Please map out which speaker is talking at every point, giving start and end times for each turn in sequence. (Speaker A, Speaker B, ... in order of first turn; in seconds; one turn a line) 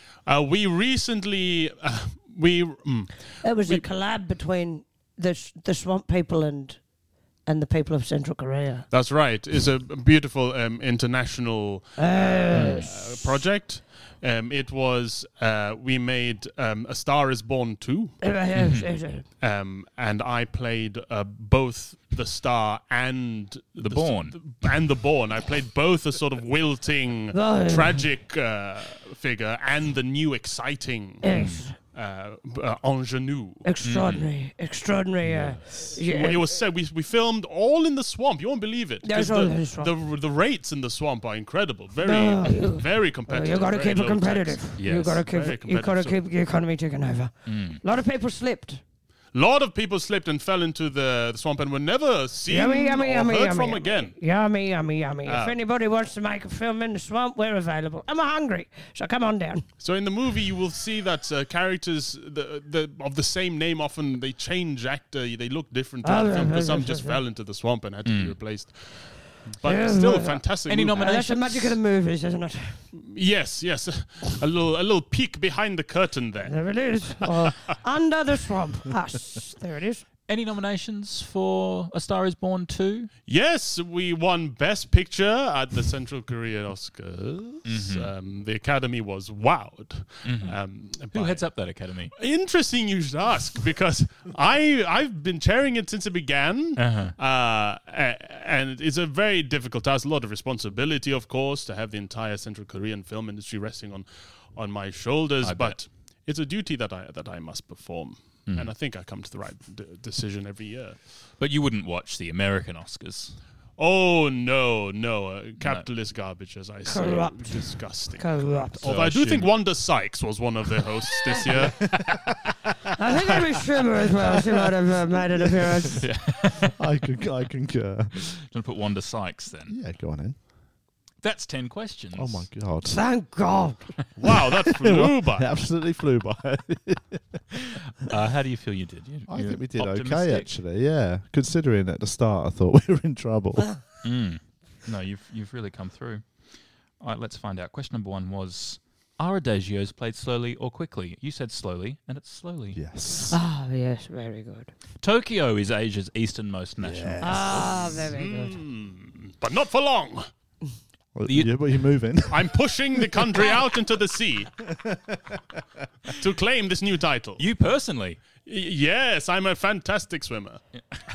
Speaker A: 0.3-3.9
Speaker B: 3.4-6.8
Speaker B: 7.5-8.9
Speaker A: 8.9-18.3
Speaker B: 12.0-13.0
Speaker C: 12.6-12.9
Speaker B: 18.2-19.3
Speaker C: 18.6-18.9
Speaker A: 19.4-33.6
Speaker C: 23.8-24.6
Speaker B: 27.3-28.1
Speaker B: 31.2-31.8
Speaker C: 31.3-31.6
Speaker B: 33.6-36.5
Speaker C: 33.8-34.3
Speaker D: 35.2-35.9
Speaker A: 36.1-46.2
Speaker B: 39.0-39.9
Speaker B: 42.0-48.8
Speaker C: 44.8-45.2
Speaker C: 47.5-47.8
Speaker A: 49.3-54.2
Speaker B: 52.5-59.6
Speaker A: 55.3-55.6
Speaker A: 59.8-71.1
Speaker B: 66.0-67.2
Speaker C: 68.1-68.4
Speaker B: 69.6-70.4
Speaker C: 70.7-71.8
Speaker B: 71.0-72.8
Speaker A: 72.9-77.8
Speaker B: 76.5-80.0
Speaker C: 80.3-83.1
Speaker A: 83.3-91.5
Speaker C: 87.7-88.1
Speaker C: 90.2-92.1
Speaker A: 92.2-111.0
Speaker C: 96.8-97.2
Speaker C: 105.4-105.8
Speaker C: 111.4-113.4
Speaker A: 113.8-122.1
Speaker C: 115.6-115.9
Speaker B: 116.9-118.8
Speaker C: 118.8-119.5
Speaker D: 121.8-122.4
Speaker B: 123.0-126.0
Speaker D: 125.6-126.0
Speaker C: 126.0-126.8
Speaker D: 126.6-128.2
Speaker C: 128.2-129.8
Speaker D: 129.7-130.4
Speaker C: 131.2-132.5
Speaker D: 132.1-133.0
Speaker B: 132.9-133.9
Speaker A: 134.2-135.5
Speaker D: 134.5-137.4
Speaker C: 137.5-140.5
Speaker D: 139.3-143.8
Speaker C: 144.0-146.2
Speaker C: 147.0-152.8
Speaker D: 152.7-153.4
Speaker B: 153.3-154.7
Speaker C: 155.0-157.9
Speaker D: 156.8-158.1
Speaker B: 157.2-158.6
Speaker A: 158.1-160.3
Speaker D: 161.2-163.6
Speaker C: 161.3-161.6
Speaker A: 162.3-164.6
Speaker D: 164.7-165.6
Speaker A: 166.1-167.4
Speaker C: 167.4-168.2
Speaker A: 168.5-170.6
Speaker C: 170.8-171.0